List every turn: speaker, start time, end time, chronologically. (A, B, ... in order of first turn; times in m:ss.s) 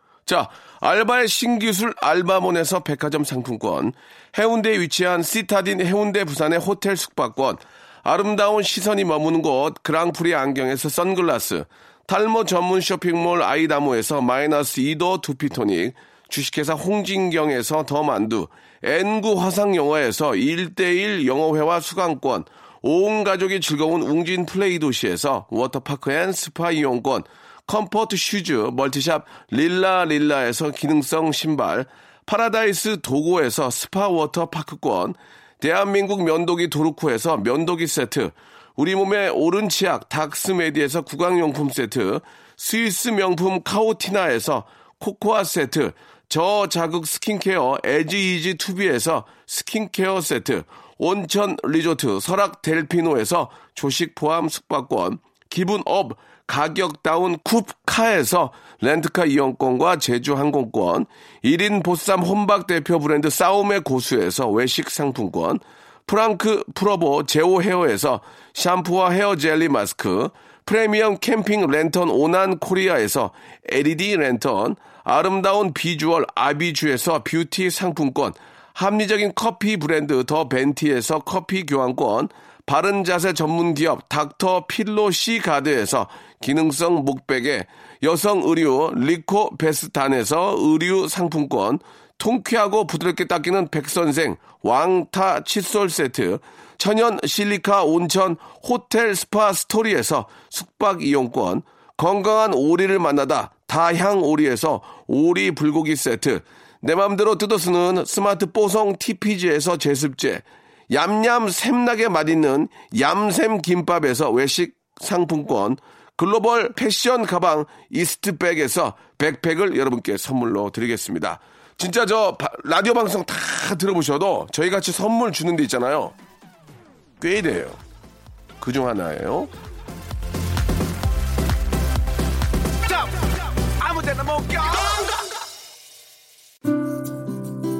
0:00.2-2:06.1 A
2:07.2-2:07.8 A
2:08.6-2:09.5 A
2:13.7-2:15.1 A